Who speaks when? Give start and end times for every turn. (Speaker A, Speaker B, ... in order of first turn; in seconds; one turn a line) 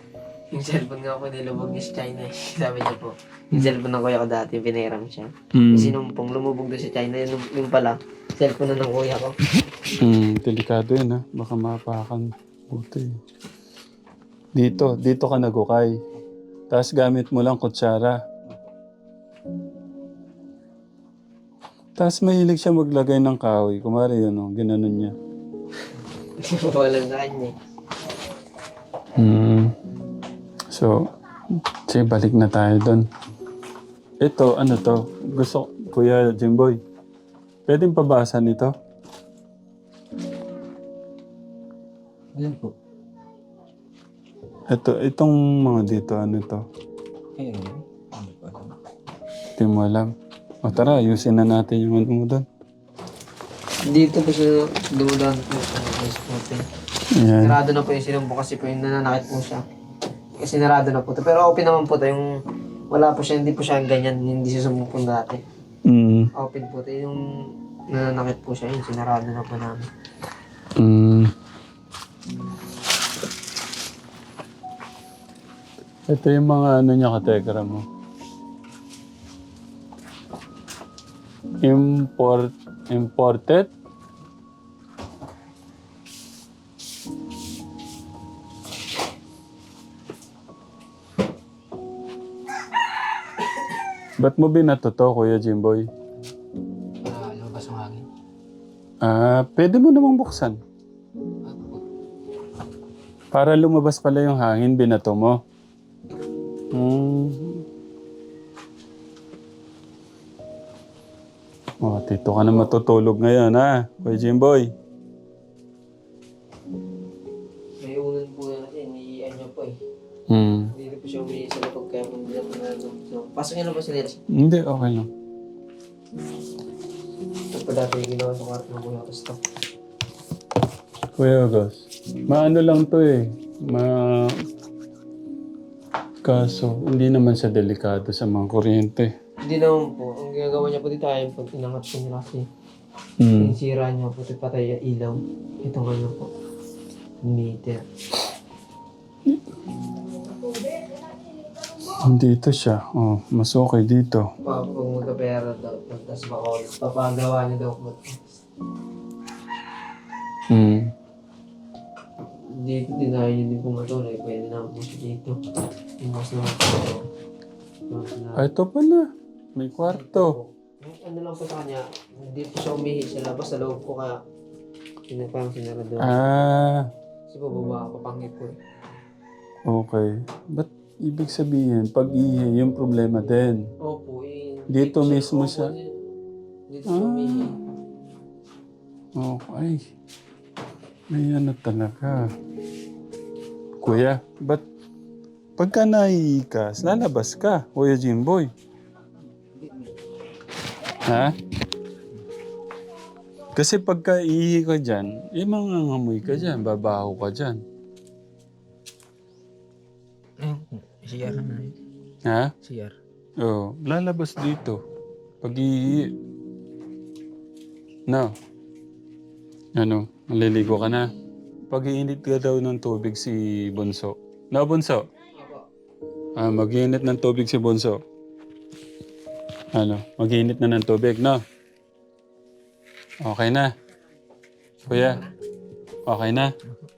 Speaker A: 0.5-9.3
Speaker B: 5.5-6.0
Speaker B: 9.9-13.1
Speaker B: 14.6-16.0
Speaker B: 16.7-18.2
Speaker B: 22.0-25.1
Speaker A: 26.4-27.5
Speaker B: 29.1-29.7
Speaker B: 30.7-33.0
Speaker B: 34.2-36.8
Speaker B: 37.7-38.7
Speaker C: 42.4-42.7
Speaker B: 44.7-46.6
Speaker C: 47.4-48.7
Speaker B: 49.6-50.1
Speaker B: 50.6-52.4
Speaker A: 53.9-56.6
Speaker B: 57.1-57.6
Speaker A: 57.4-59.6
Speaker A: 60.4-62.3
Speaker A: 62.9-65.4
Speaker B: 65.8-66.3
Speaker A: 66.4-67.2
Speaker A: 67.9-69.9
Speaker B: 70.8-71.3
Speaker B: 76.1-77.9
Speaker B: 81.6-83.7
Speaker B: 94.2-95.9
Speaker C: 97.0-98.0
Speaker B: 99.0-100.6
Speaker C: 101.5-101.8
Speaker B: 103.3-105.4
Speaker B: 106.7-107.6
Speaker B: 111.8-114.7
Speaker A: 112.5-112.8
Speaker A: 117.8-119.8
Speaker B: 120.3-120.7
Speaker A: 120.7-124.2
Speaker B: 124.3-125.1
Speaker A: 127.5-129.4
Speaker B: 131.2-134.4
Speaker B: 136.2-139.1
Speaker A: 139.4-142.4
Speaker B: 143.2-143.6
Speaker A: 143.4-146.3
Speaker A: 147.2-147.8
Speaker B: 151.9-154.3
Speaker A: 154.4-158.2
Speaker B: 160.5-160.9
Speaker A: 162.6-165.3
Speaker A: 166.0-167.0
Speaker A: 167.9-168.4
Speaker B: 168.4-170.4
Speaker A: 169.8-174.2
Speaker A: 175.1-176.2
Speaker B: 176.0-176.9
Speaker A: 177.3-178.6
Speaker B: 179.7-183.7
Speaker A: 183.8-186.0
Speaker B: 184.7-185.7
Speaker A: 186.7-187.5
Speaker B: 186.9-187.5
Speaker B: 189.1-189.9
Speaker B: 191.1-192.3
Speaker B: 193.8-194.6
Speaker B: 195.6-198.5
Speaker C: 199.5-199.9
Speaker B: 201.0-201.4
Speaker B: 203.6-207.6
Speaker C: 210.4-211.7
Speaker B: 212.2-212.5
Speaker C: 212.6-212.9
Speaker B: 213.4-214.8
Speaker B: 215.4-216.1
Speaker B: 219.8-221.1
Speaker B: 221.7-225.1
Speaker A: 225.3-225.7
Speaker B: 226.4-228.0
Speaker B: 229.7-231.4
Speaker B: 233.2-233.7
Speaker B: 234.9-235.3
Speaker B: 236.1-236.5